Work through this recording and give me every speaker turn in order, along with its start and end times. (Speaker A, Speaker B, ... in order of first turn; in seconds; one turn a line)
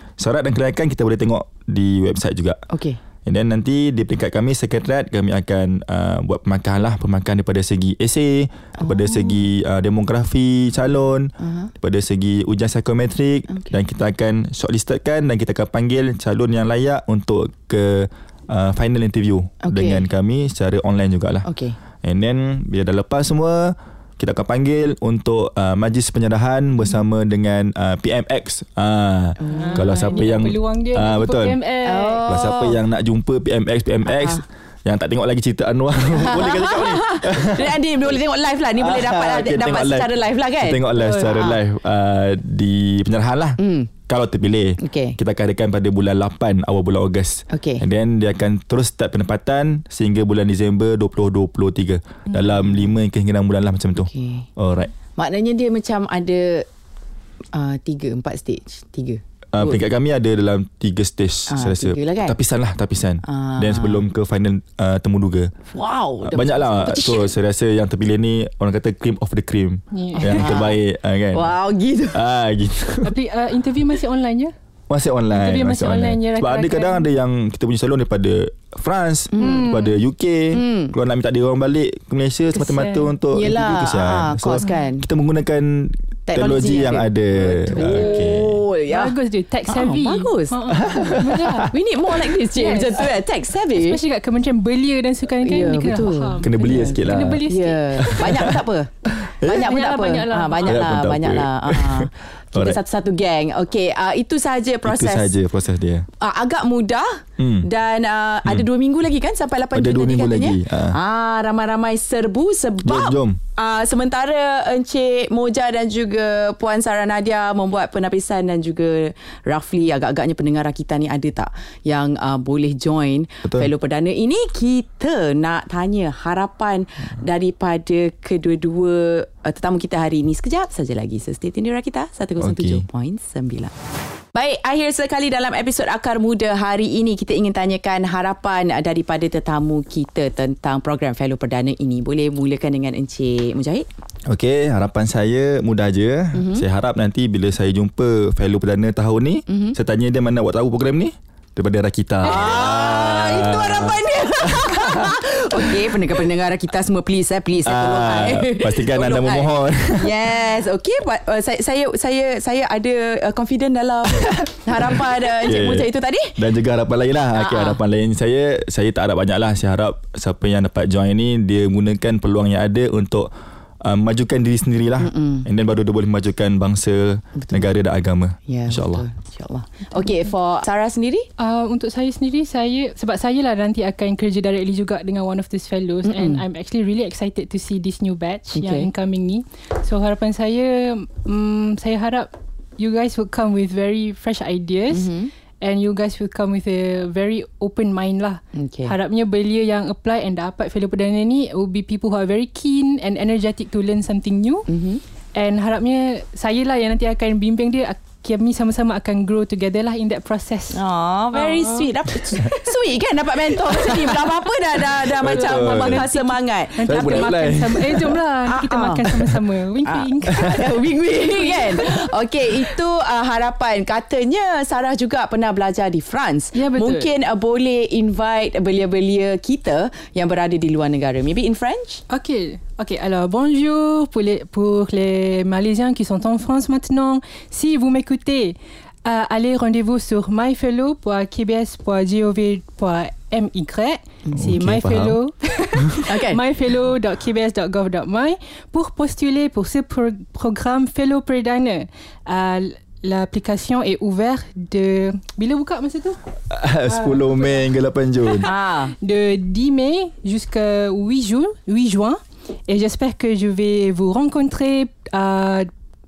Speaker A: 0.2-2.6
Speaker B: 2.7-3.0
Speaker A: 3.2-21.5
Speaker B: 8.8-9.4
Speaker B: 11.4-11.7
Speaker B: 19.6-20.0
Speaker B: 21.4-21.8
Speaker A: 22.0-31.6
Speaker B: 29.4-30.2
Speaker C: 29.5-32.3
Speaker B: 31.8-32.8
Speaker A: 32.3-37.8
Speaker B: 34.1-34.4
Speaker B: 36.1-41.6
Speaker A: 38.8-54.9
Speaker C: 41.0-41.4
Speaker B: 43.6-43.9
Speaker B: 44.8-45.2
Speaker B: 47.5-47.8
Speaker B: 52.3-52.9
Speaker B: 54.0-54.5
Speaker B: 55.1-56.7
Speaker B: 57.5-59.8
Speaker A: 59.5-65.5
Speaker B: 61.5-62.4
Speaker B: 63.2-64.0
Speaker B: 65.7-67.3
Speaker A: 66.2-71.6
Speaker C: 69.9-70.6
Speaker B: 70.2-70.8
Speaker B: 71.3-72.2
Speaker A: 72.1-73.2
Speaker C: 73.0-74.5
Speaker A: 74.9-88.6
Speaker C: 75.3-77.1
Speaker B: 79.3-79.7
Speaker C: 79.4-80.0
Speaker B: 80.5-80.9
Speaker C: 82.5-83.1
Speaker B: 83.3-85.0
Speaker B: 86.3-89.1
Speaker C: 87.8-88.2
Speaker C: 88.9-91.7
Speaker B: 89.7-94.0
Speaker A: 90.7-91.7
Speaker C: 92.5-93.1
Speaker C: 93.7-98.4
Speaker B: 95.4-98.9
Speaker A: 96.4-97.5
Speaker A: 98.0-99.7
Speaker B: 99.4-105.3
Speaker C: 99.5-100.8
Speaker A: 100.7-102.8
Speaker A: 104.8-106.1
Speaker B: 106.2-133.7
Speaker A: 107.4-107.7
Speaker A: 109.7-111.0
Speaker A: 112.8-113.4
Speaker A: 132.4-132.8
Speaker B: 134.3-143.9
Speaker A: 144.3-155.9
Speaker B: 146.3-146.6
Speaker B: 149.5-149.8
Speaker B: 152.2-166.4
Speaker A: 157.7-160.2
Speaker A: 164.3-173.3
Speaker B: 167.3-167.8
Speaker A: 173.8-179.1
Speaker B: 175.0-175.5
Speaker B: 177.4-177.7
Speaker B: 178.5-181.3
Speaker C: 181.4-204.7
Speaker B: 186.1-186.4
Speaker B: 188.5-188.9
Speaker B: 194.9-195.3
Speaker B: 198.6-198.9
Speaker B: 204.7-205.0
Speaker C: 205.3-210.8
Speaker B: 210.7-217.6
Speaker C: 211.3-212.5
Speaker C: 213.7-214.4
Speaker A: 215.0-216.1
Speaker C: 215.2-222.1
Speaker A: 216.8-218.2
Speaker B: 218.5-219.1
Speaker B: 219.8-232.0
Speaker C: 226.6-227.1
Speaker C: 232.1-256.2
Speaker A: 244.3-245.2
Speaker A: 245.8-246.0
Speaker B: 246.1-246.4
Speaker A: 256.5-258.5
Speaker C: 256.9-257.7
Speaker C: 258.3-265.7
Speaker B: 258.4-258.9